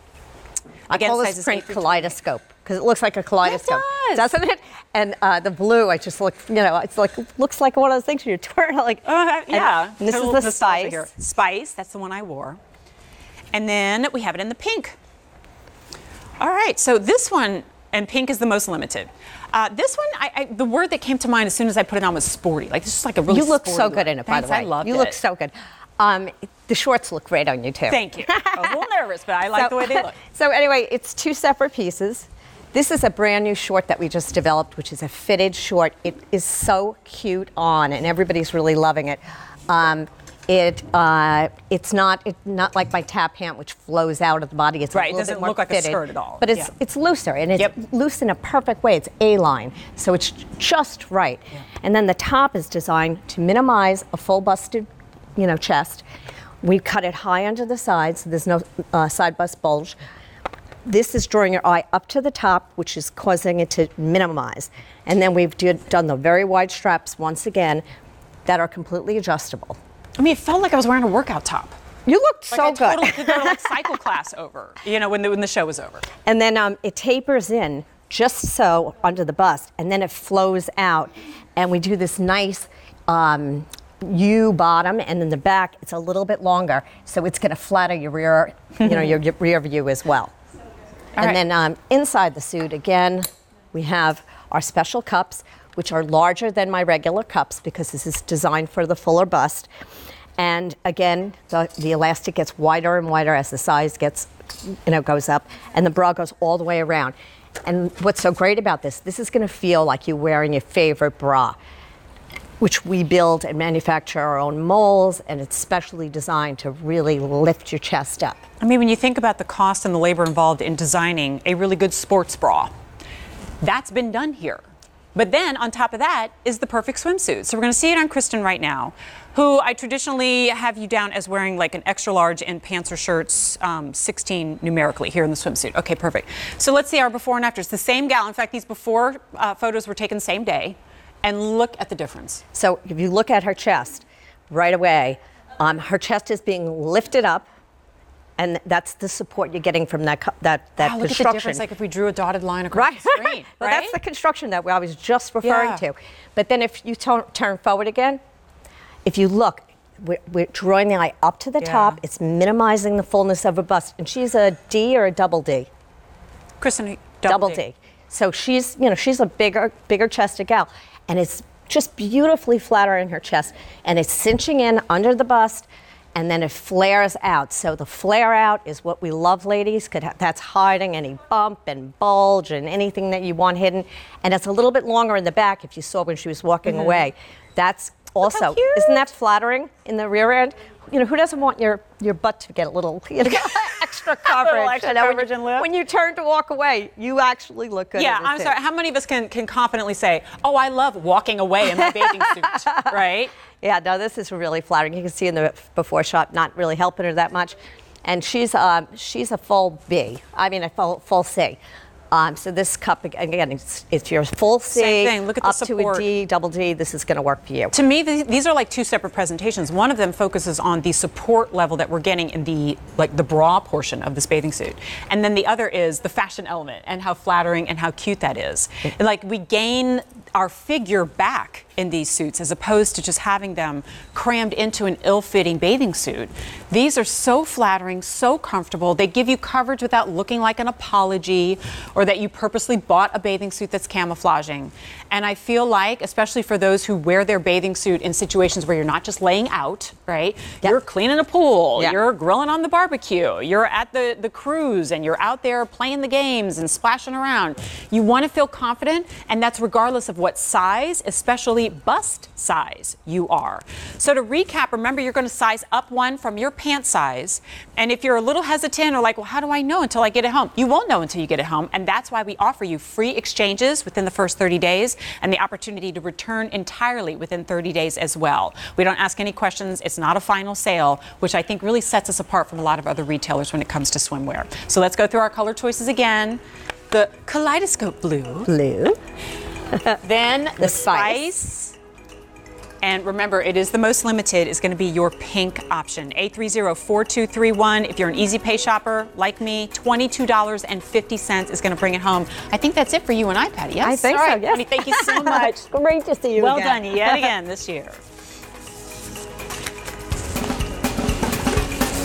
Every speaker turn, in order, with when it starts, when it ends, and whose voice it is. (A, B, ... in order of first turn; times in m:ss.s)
0:00.9-0:02.2 A
0:00.9-0:11.1 B
0:03.4-0:04.4 A
0:09.0-0:12.6 A
0:13.5-0:15.0 A
0:16.4-0:25.2 A
0:23.3-0:28.8 B
0:27.9-0:30.2 A
0:29.5-0:56.0 B
0:44.9-0:46.7 A
0:56.6-1:00.0 B
1:00.9-1:07.8 B
1:08.5-1:09.8 B
1:10.2-1:11.8 A
1:12.1-1:13.7 B
1:12.5-1:16.1 A
1:16.2-1:30.3 B
1:31.2-1:39.7 B
1:40.4-1:51.6 B
1:52.6-1:58.4 B
1:58.6-2:02.7 A
2:03.6-2:04.6 A
2:05.2-2:22.4 A
2:22.5-2:27.5 B
2:28.4-2:31.6 B
2:30.8-2:34.0 A
2:32.7-2:38.2 B
2:35.4-2:35.8 A
2:39.0-2:45.7 B
2:41.6-2:42.0 A
2:46.6-2:47.6 A
2:47.3-3:18.5 B
3:06.7-3:07.0 A
3:08.2-3:09.1 A
3:13.4-3:13.7 A
3:14.2-3:15.7 A
3:18.0-3:23.3 A
3:21.8-3:22.8 B
3:23.6-3:31.6 B
3:32.1-3:37.7 B
3:34.7-3:36.1 A
3:37.7-4:46.4 A
4:46.9-4:48.5 A
4:48.5-4:49.0 B
4:50.0-4:51.8 A
4:50.6-4:51.2 B
4:52.8-5:05.6 A
5:03.8-5:07.3 B
5:06.4-5:08.0 A